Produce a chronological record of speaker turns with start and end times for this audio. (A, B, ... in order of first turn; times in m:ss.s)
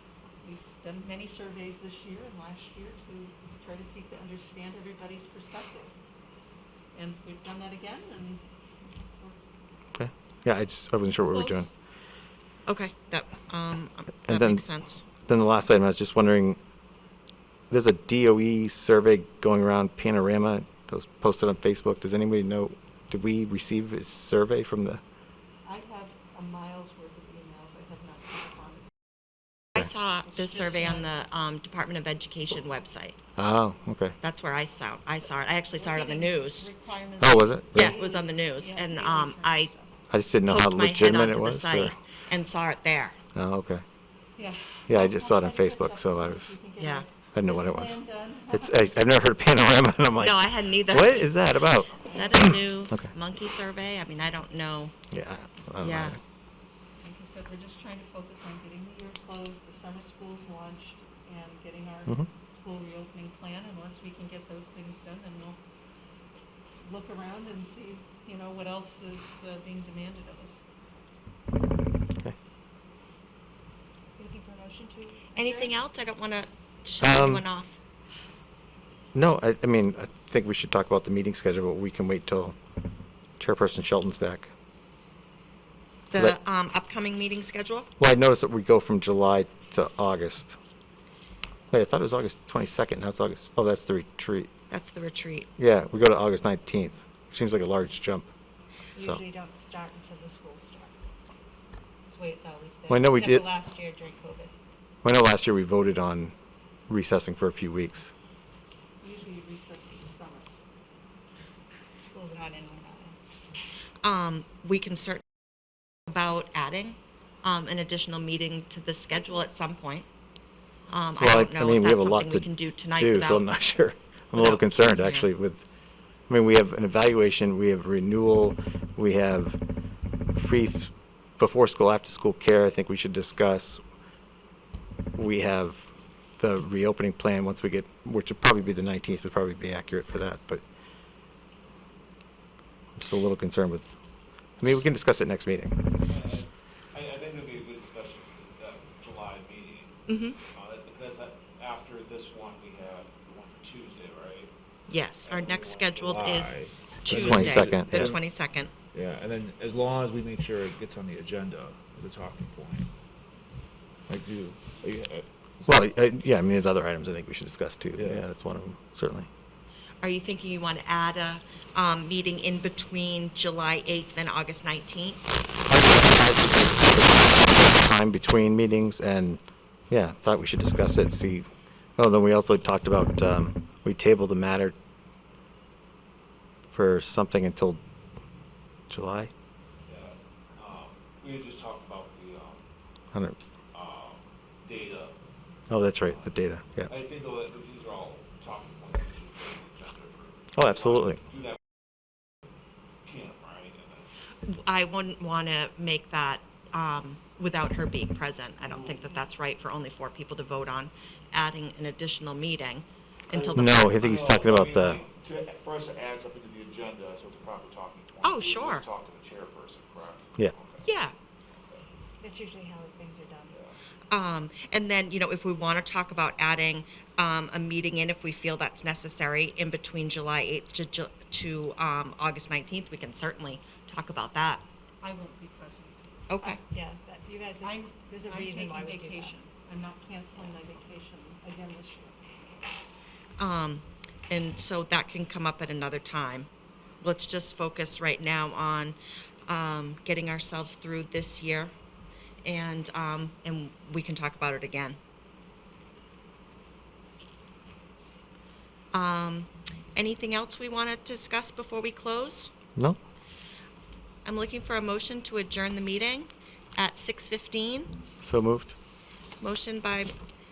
0:00.4-0:05.9 A
0:06.9-0:09.4 A
0:10.0-0:11.7 B
0:11.2-0:11.7 A
0:12.7-0:15.0 C
0:14.3-0:14.6 B
0:15.2-0:16.6 B
0:17.7-0:25.0 B
0:25.6-0:28.9 A
0:29.8-0:33.2 C
0:30.3-0:31.1 A
0:33.4-0:34.2 B
0:34.2-0:36.7 C
0:35.8-0:40.0 A
0:37.2-0:38.0 B
0:37.7-0:39.7 C
0:40.1-0:41.9 B
0:40.4-0:43.2 C
0:43.4-0:43.8 B
0:44.4-0:49.3 A
0:44.9-0:46.5 B
0:46.8-0:47.1 C
0:47.3-0:48.0 B
0:48.5-0:53.1 B
0:50.2-0:54.9 C
0:55.1-0:56.2 B
0:55.8-0:56.2 C
0:57.0-1:05.6 A
1:06.8-1:10.6 A
1:14.2-1:15.8 D
1:15.3-1:17.8 C
1:17.0-1:17.4 B
1:19.2-1:22.6 B
1:23.4-1:24.5 B
1:26.1-1:27.9 C
1:28.0-1:30.6 B
1:31.7-1:34.5 B
1:34.7-1:35.5 C
1:35.6-1:38.3 B
1:39.0-1:41.1 D
1:39.0-1:39.2 B
1:42.1-1:44.5 D
1:42.9-1:43.5 B
1:45.0-1:46.3 B
1:46.9-1:48.1 B
1:49.0-1:50.5 A
1:52.0-1:53.2 D
1:54.0-1:55.2 C
1:56.1-2:00.1 C
2:00.9-2:03.5 C
2:01.2-2:05.6 B
2:04.4-2:05.3 C
2:06.3-2:09.6 B
2:10.3-2:13.8 B
2:15.2-2:20.6 B
2:23.0-2:23.9 B
2:24.6-2:25.8 B
2:26.1-2:34.5 E
2:30.1-2:30.4 C
2:34.9-2:38.7 C
2:35.2-2:38.2 E
2:37.1-2:38.1 B
2:38.9-2:42.9 E
2:44.1-2:45.9 E
2:45.7-2:49.3 B
2:48.0-2:48.2 E
2:50.0-2:55.2 C
2:55.7-3:04.8 B
3:06.7-3:07.8 B
3:08.9-3:09.3 B
3:09.9-3:12.6 E
3:13.7-3:15.2 E
3:15.7-3:16.9 B
3:16.1-3:16.3 E
3:16.9-3:21.6 E
3:20.6-3:21.2 B
3:23.0-3:24.1 E
3:24.5-3:33.9 C
3:28.6-3:29.2 E
3:33.3-3:40.9 E
3:33.6-3:35.0 B
3:38.2-3:38.9 C
3:40.8-3:41.1 C
3:42.2-3:43.6 D
3:43.5-3:43.8 E
3:44.1-3:54.6 C
3:55.0-3:56.0 A
3:56.3-3:56.6 C
3:56.4-3:59.4 D
3:57.6-4:02.2 A
4:03.4-4:06.5 C
4:07.0-4:11.7 C
4:12.4-4:15.0 C
4:18.9-4:22.5 C
4:24.2-4:27.9 C
4:28.2-4:28.8 B
4:29.4-4:30.1 C